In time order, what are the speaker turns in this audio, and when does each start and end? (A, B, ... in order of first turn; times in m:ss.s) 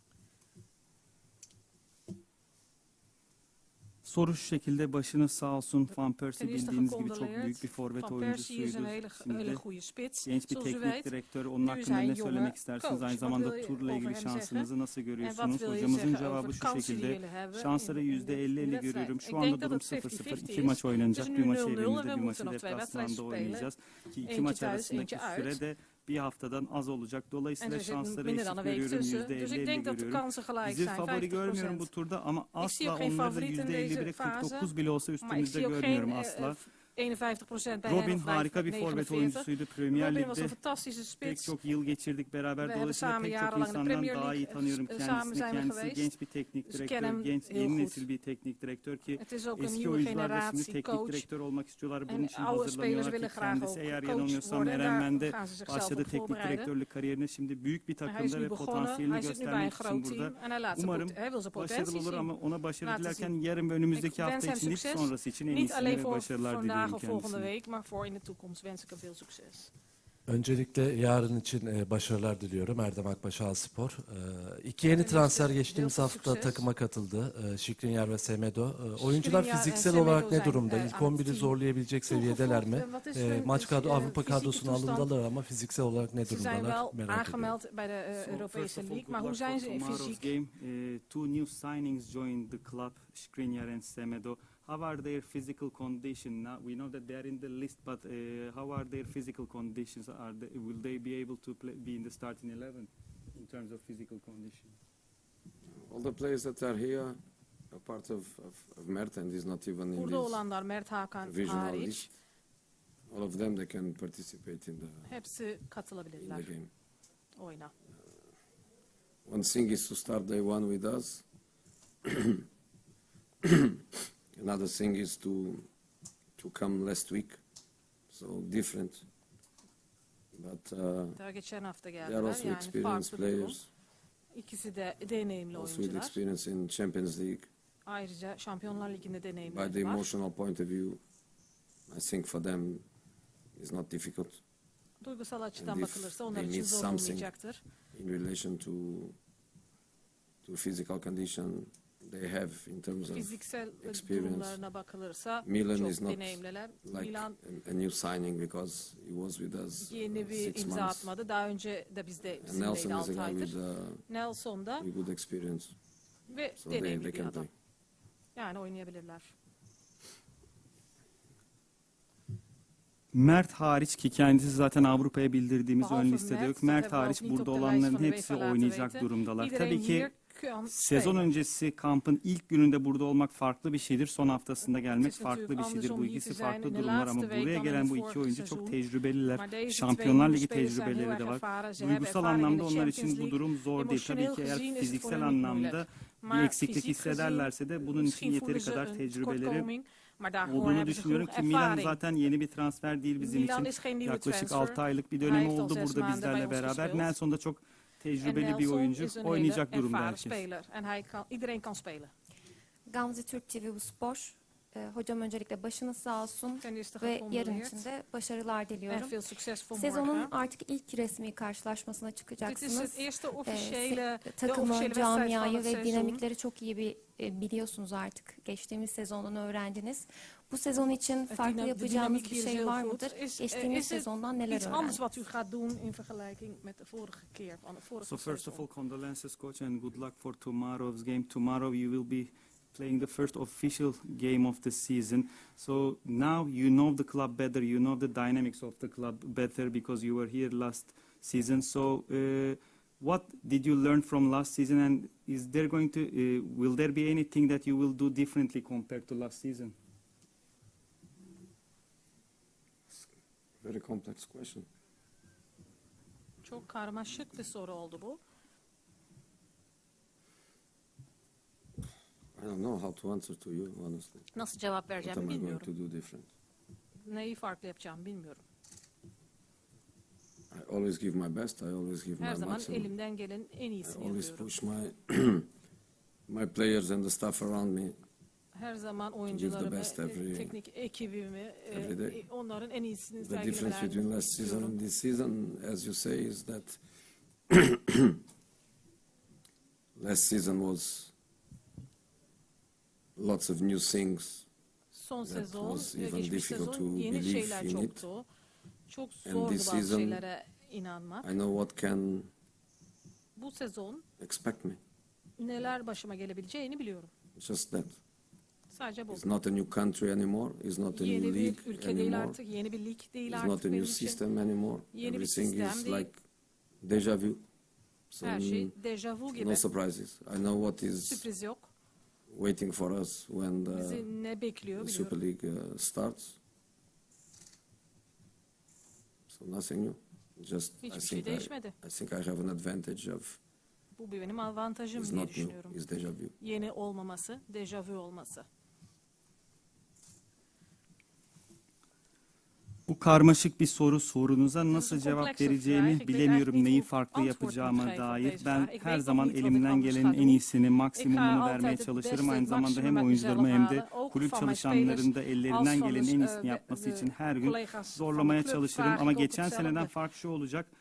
0:04.0-0:09.6 A
0:06.4-0:11.1 B
0:10.2-0:36.6 A
0:11.6-0:14.7 B
0:15.2-0:23.7 B
0:24.3-0:25.6 B
0:27.6-0:31.9 B
0:32.6-0:34.7 B
0:35.2-0:41.6 B
0:37.9-0:40.6 A
0:41.2-1:07.5 A
0:42.6-0:46.1 B
0:46.7-0:48.1 B
0:49.2-0:51.3 B
0:52.1-0:56.7 B
0:58.0-1:02.3 B
1:02.8-1:03.3 B
1:04.0-1:09.7 B
1:10.3-1:27.5 C
1:14.9-1:16.6 B
1:19.0-1:25.1 B
1:26.3-1:30.3 B
1:28.2-1:44.7 A
1:45.9-1:47.2 D
1:47.7-1:50.4 D
1:50.0-1:52.1 B
1:51.2-1:52.1 D
1:53.1-1:55.1 D
1:55.1-1:56.5 B
1:56.2-1:56.7 D
1:57.4-1:57.7 B
1:59.3-2:01.2 D
2:02.0-2:02.4 D
2:03.4-2:05.7 D
2:06.4-2:07.4 D
2:08.1-2:09.0 D
2:10.4-2:11.2 D
2:11.2-2:13.6 B
2:12.0-2:13.7 D
2:14.3-2:16.2 B
2:15.5-2:17.5 D
2:17.9-2:20.1 B
2:19.5-2:21.0 D
2:21.9-2:22.8 D
2:23.6-2:24.4 D
2:25.0-2:27.6 B
2:25.6-2:27.3 D
2:27.9-2:29.2 D
2:30.4-2:34.6 D
2:33.1-2:37.4 B
2:35.4-2:41.1 D
2:39.8-2:43.5 B
2:42.4-2:44.0 D
2:44.1-2:44.9 B
2:44.8-2:45.8 D
2:46.3-2:47.5 B
2:46.6-2:47.5 D
2:48.4-2:49.3 B
2:53.1-3:00.1 A
2:55.8-3:01.2 B
3:00.7-3:19.7 A
3:05.0-3:08.8 B
3:09.4-3:22.0 B
3:20.5-3:30.4 A
3:23.2-3:27.1 B
3:28.2-3:32.1 B
3:32.9-3:39.2 E
3:36.6-3:37.8 B
3:38.9-3:40.3 B
3:39.7-3:55.0 E
3:42.4-3:46.2 B
3:51.3-3:58.7 B
3:58.0-4:19.8 A
4:23.6-4:24.7 D
4:26.4-4:28.2 B
4:32.4-4:34.3 D
4:34.3-4:35.7 B
4:35.0-4:36.3 D
4:37.1-4:38.4 B
4:40.5-4:42.9 D
4:42.2-4:44.5 B
4:43.8-4:45.5 D
4:46.3-4:48.0 D
4:48.5-4:54.8 B
4:49.3-4:50.6 D
4:51.7-4:52.2 D
4:53.2-4:56.8 D
4:57.5-4:58.2 D
5:00.0-5:01.1 D
5:03.2-5:04.5 D
5:04.9-5:08.3 B
5:05.2-5:08.0 D
5:08.9-5:11.3 B
5:09.2-5:10.2 D
5:11.2-5:12.3 D
5:13.4-5:14.0 B
5:14.2-5:14.8 D
5:15.4-5:17.1 B
5:17.4-5:18.0 D
5:18.7-5:19.3 B
5:19.1-5:22.4 D
5:20.9-5:24.2 B
5:23.3-5:26.2 D
5:24.9-5:26.1 B
5:26.8-5:27.4 D
5:28.1-5:28.7 D
5:28.2-5:29.6 B
5:29.3-5:31.3 D
5:31.1-5:31.7 B
5:32.3-5:34.1 D
5:33.7-5:35.2 B
5:34.8-5:36.4 D
5:39.3-5:43.4 D
5:40.8-5:41.8 B
5:44.0-5:45.8 B
5:45.0-5:46.4 D
5:46.4-5:48.5 B
5:52.9-6:10.7 A
5:54.7-6:00.4 B
6:01.0-6:09.9 B